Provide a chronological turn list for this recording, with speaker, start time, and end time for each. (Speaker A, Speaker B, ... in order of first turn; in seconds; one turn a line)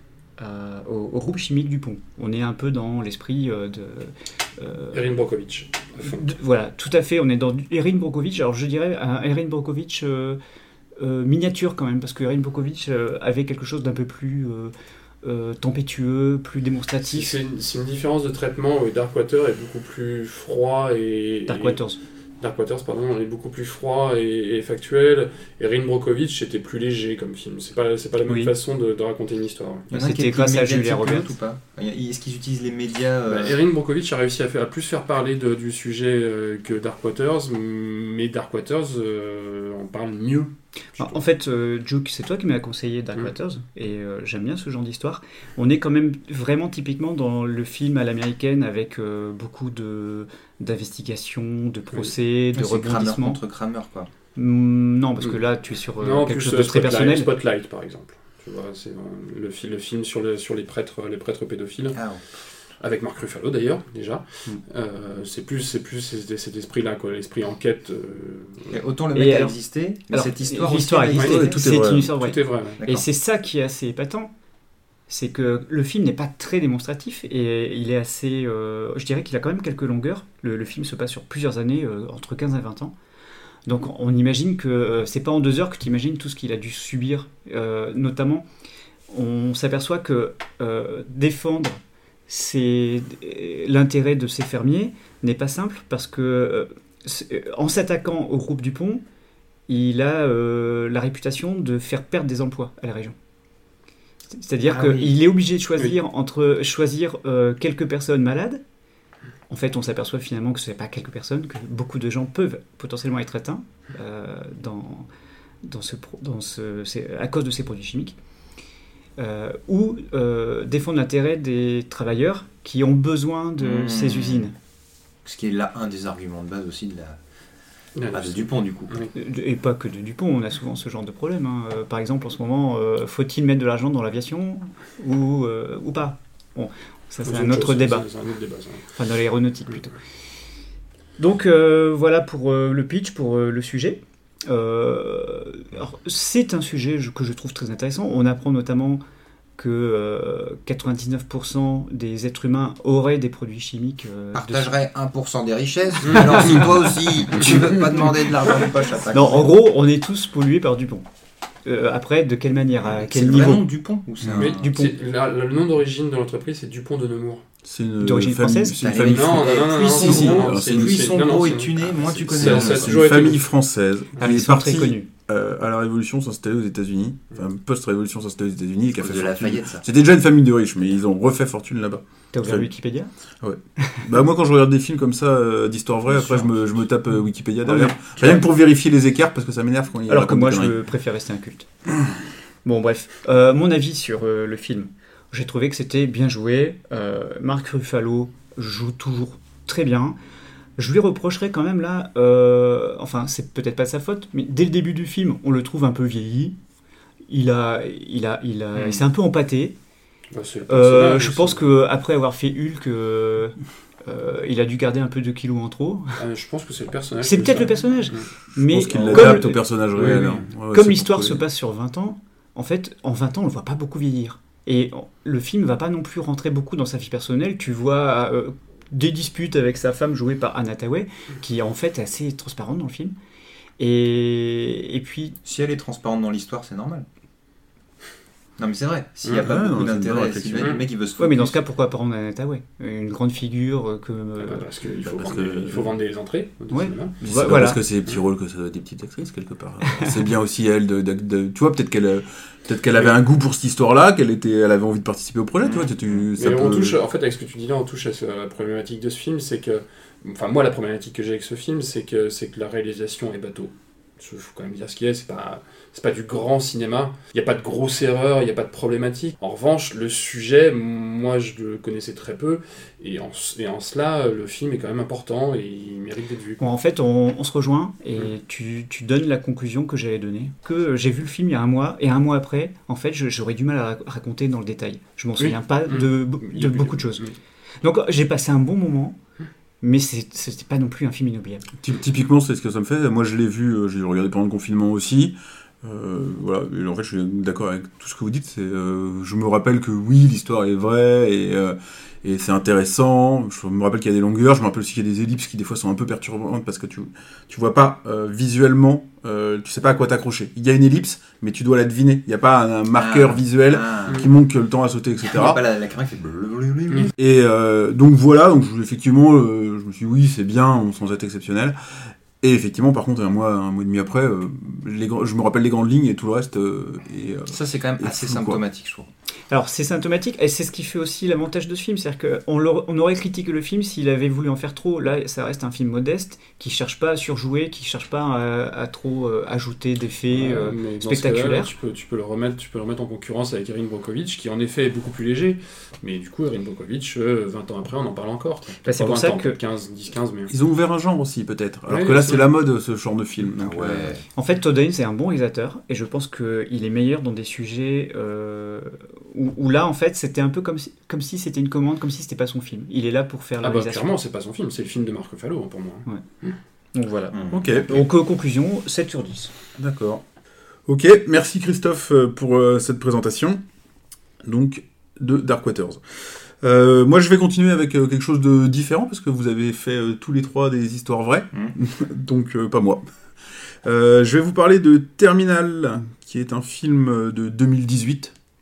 Speaker A: 0.4-5.1
Speaker B: 4.9-6.3
Speaker A: 6.0-10.4
Speaker A: 11.0-17.4
Speaker B: 17.1-21.8
Speaker A: 21.5-22.0
Speaker B: 22.4-29.9
Speaker A: 28.2-28.5
Speaker A: 29.9-31.3
Speaker C: 29.9-33.6
Speaker B: 33.3-41.2
Speaker A: 41.0-53.4
Speaker C: 52.5-54.1
Speaker A: 54.4-57.3
Speaker B: 56.0-62.0
Speaker C: 61.9-62.2
Speaker B: 62.8-68.8
Speaker C: 68.7-71.4
Speaker A: 69.1-69.5
Speaker A: 70.1-74.3
Speaker B: 71.1-72.8
Speaker D: 71.2-72.1
Speaker C: 72.8-73.1
Speaker A: 75.1-83.0
Speaker A: 83.7-88.5
Speaker A: 89.1-99.0
Speaker A: 99.7-103.2
Speaker A: 104.3-108.6
Speaker C: 104.7-105.1
Speaker A: 109.5-115.1
Speaker A: 115.6-118.2
Speaker A: 119.2-124.5
Speaker C: 123.6-124.5
Speaker C: 125.2-127.2
Speaker B: 128.0-129.1
Speaker C: 128.1-129.0
Speaker A: 129.1-138.1
Speaker B: 137.2-138.9
Speaker A: 138.9-139.9
Speaker A: 141.2-149.0
Speaker A: 149.6-154.8
Speaker C: 154.3-159.5
Speaker B: 156.1-156.5
Speaker A: 159.1-161.1
Speaker A: 161.7-163.7
Speaker C: 162.8-164.8
Speaker D: 164.2-164.5
Speaker A: 164.4-164.9
Speaker B: 164.4-167.4
Speaker D: 167.6-182.7
Speaker A: 168.0-168.8
Speaker C: 168.8-172.9
Speaker B: 169.1-173.4
Speaker A: 174.2-175.1
Speaker C: 178.9-179.8
Speaker A: 182.3-183.1
Speaker D: 183.4-190.8
Speaker C: 186.1-186.9
Speaker A: 187.7-188.4
Speaker A: 190.1-191.7
Speaker A: 192.7-200.2
Speaker A: 200.8-206.6
Speaker A: 207.3-209.8
Speaker B: 210.3-211.6
Speaker A: 210.7-216.2
Speaker B: 216.2-218.3
Speaker A: 217.2-233.1
Speaker D: 218.6-221.4
Speaker C: 218.9-219.4
Speaker A: 233.8-235.4
Speaker C: 235.4-237.1
Speaker C: 238.6-241.6
Speaker D: 239.4-240.8
Speaker A: 241.2-244.7
Speaker B: 244.4-247.2
Speaker D: 245.0-245.9
Speaker A: 246.7-247.8
Speaker D: 247.2-257.0
Speaker B: 256.4-276.6
Speaker A: 276.6-287.2
Speaker B: 285.4-287.4
Speaker A: 287.8-289.2
Speaker A: 289.8-291.7
Speaker D: 291.8-315.6
Speaker C: 312.9-314.3
Speaker C: 315.2-317.1
Speaker D: 317.2-328.6
Speaker C: 327.5-329.1
Speaker A: 329.5-341.7
Speaker B: 340.3-350.5
Speaker A: 348.8-349.6
Speaker D: 350.5-354.1
Speaker B: 351.9-352.5
Speaker C: 353.6-354.2
Speaker A: 354.4-364.1
Speaker B: 363.6-366.6
Speaker A: 366.9-369.5
Speaker C: 367.3-367.8
Speaker D: 367.5-368.0
Speaker D: 369.8-370.2
Speaker D: 370.9-373.6
Speaker D: 374.4-383.0
Speaker D: 383.8-388.3